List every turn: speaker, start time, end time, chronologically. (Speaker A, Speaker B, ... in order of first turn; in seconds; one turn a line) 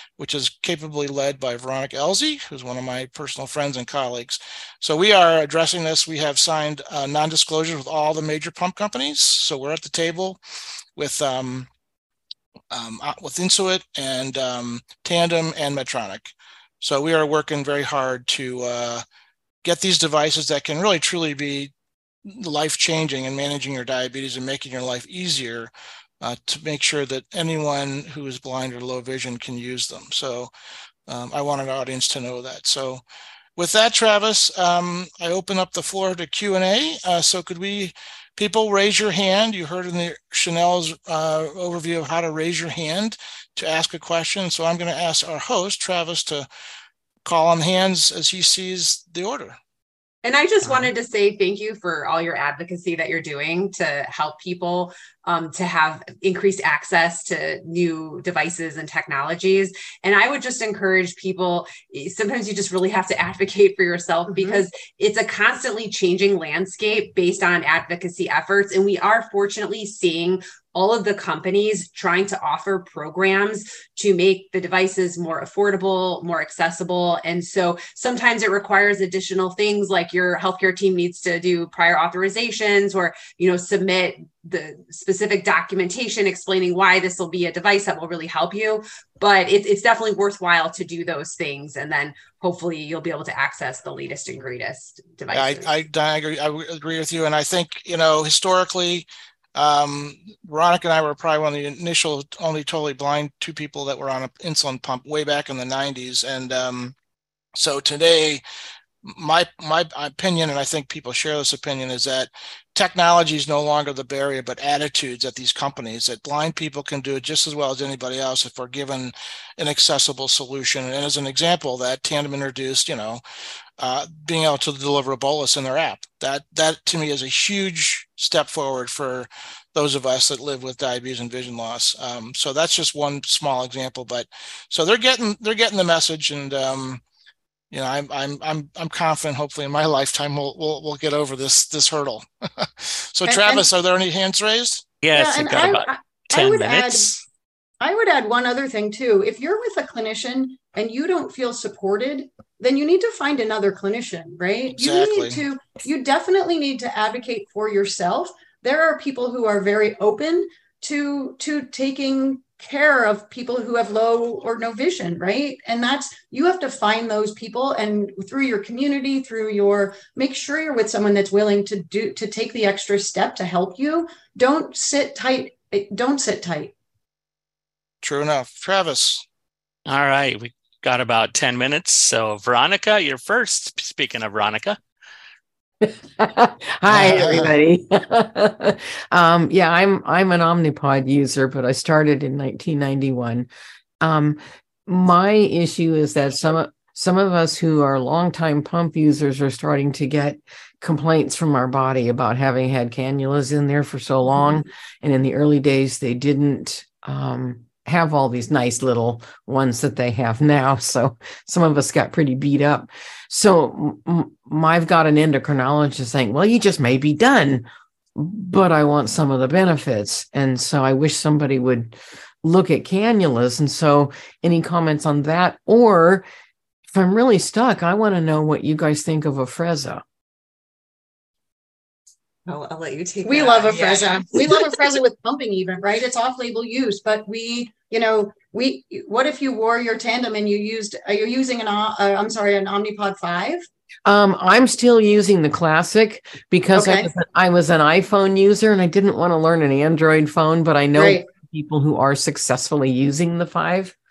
Speaker A: 0.2-10.4
Speaker A: 11.0-11.7
Speaker A: 12.7-19.1
Speaker A: 19.6-21.7
Speaker A: 22.3-30.5
Speaker A: 31.1-33.0
Speaker A: 33.6-46.5
Speaker A: 47.2-49.6
Speaker B: 50.2-95.7
Speaker C: 64.3-64.6
Speaker A: 95.3-107.0
Speaker A: 107.6-108.4
Speaker A: 109.1-123.2
Speaker A: 123.8-137.0
Speaker A: 137.7-145.0
Speaker C: 143.3-143.7
Speaker D: 145.0-147.2
Speaker C: 145.1-147.1
Speaker C: 147.8-176.7
Speaker A: 154.7-155.4
Speaker A: 178.0-179.2
Speaker D: 179.9-184.8
Speaker E: 185.8-193.5
Speaker A: 186.9-187.5
Speaker E: 194.0-226.2
Speaker E: 226.9-230.0
Speaker B: 232.5-234.7
Speaker C: 233.2-243.7
Speaker E: 244.1-253.9
Speaker C: 246.8-247.1
Speaker C: 250.9-251.3